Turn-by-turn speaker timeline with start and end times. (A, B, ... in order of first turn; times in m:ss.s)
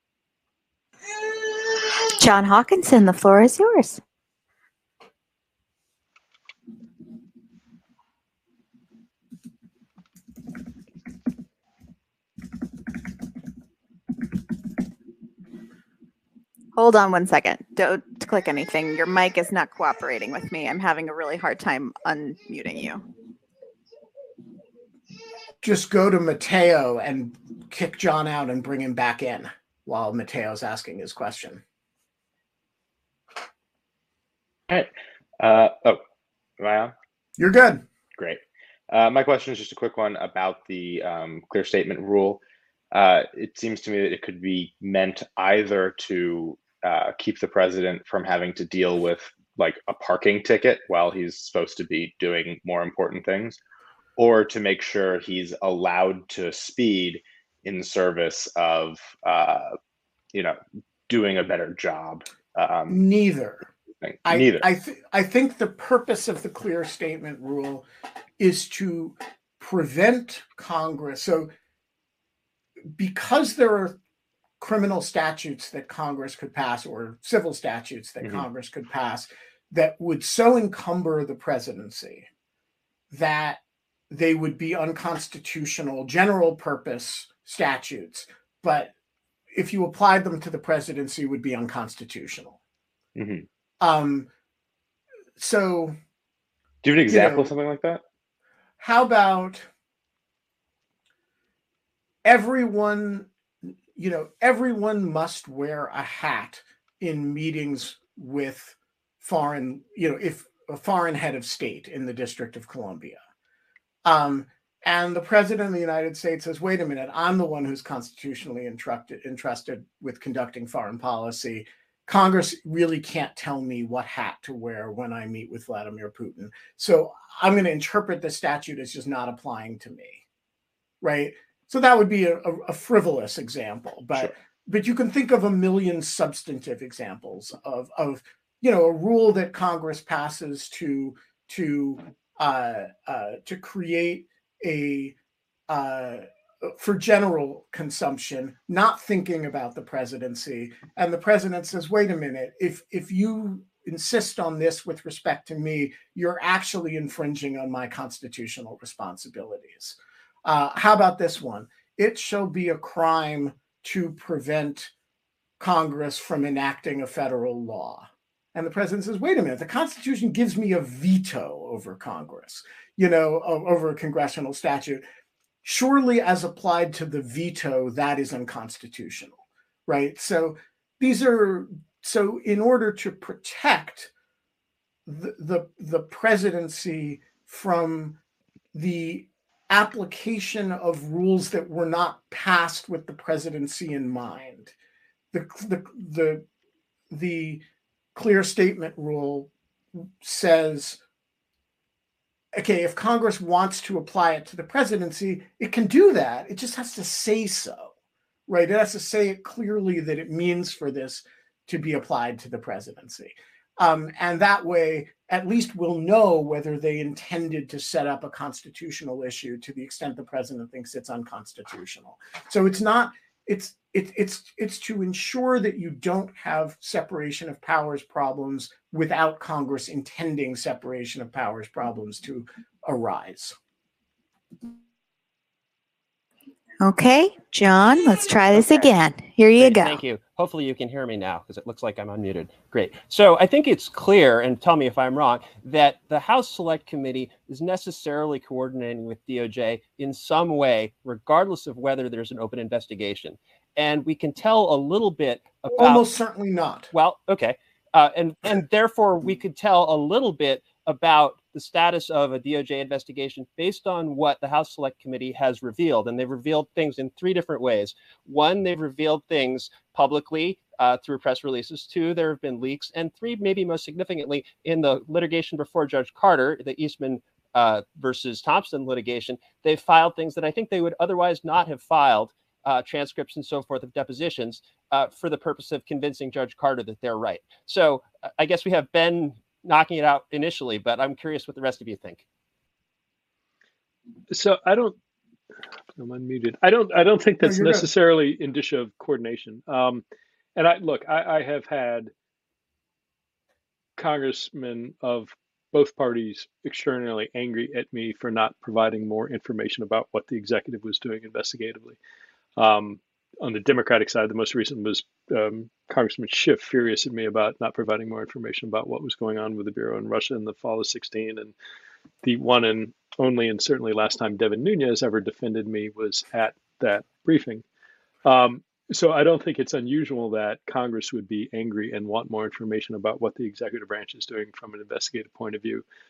0:01.7-0:04.0 A
0:16.8-0:23.0 A
0:25.6-0:31.6 B
0:34.7-0:36.0 C
0:36.6-0:36.9 C
0:37.4-0:37.8 B
0:38.2-0:53.6 C
0:54.2-0:59.7 C
1:00.3-1:03.0 C
1:02.9-1:03.6 B
1:04.0-1:04.7 C
1:04.2-1:07.8 B
1:08.4-1:11.5 B
1:12.9-1:14.0 B
1:14.6-1:22.3 B
1:23.1-1:28.9 B
1:29.5-1:32.6 B
1:33.1-1:33.4 C
1:33.8-1:34.3 B
1:35.4-1:36.0 B
1:36.8-1:38.0 C
1:37.1-1:37.5 B
1:38.8-1:39.7 B
1:42.2-1:43.3 B
1:44.0-1:53.2 B
1:54.0-2:10.2 B
2:11.0-2:25.1 B
2:25.7-2:44.9 B
2:45.6-2:55.0 B
2:55.6-2:59.4 B
2:59.9-3:04.1 B
3:05.1-3:08.2 B
3:08.7-3:14.7 B
3:15.3-3:16.4 B
3:17.1-3:17.6 B
3:18.1-3:21.0 B
3:22.6-3:27.9 B
3:28.5-3:53.6 B
3:56.8-4:00.0 A
3:59.6-4:16.1 D
4:15.7-4:16.9 B
4:16.9-4:52.2 D
4:54.3-4:55.0 E
4:56.0-5:00.0 E
4:57.4-4:57.9 B
5:00.6-5:02.1 E
5:04.0-5:12.0 E
5:12.6-5:21.5 E
5:22.2-5:27.6 E
5:28.2-5:35.8 E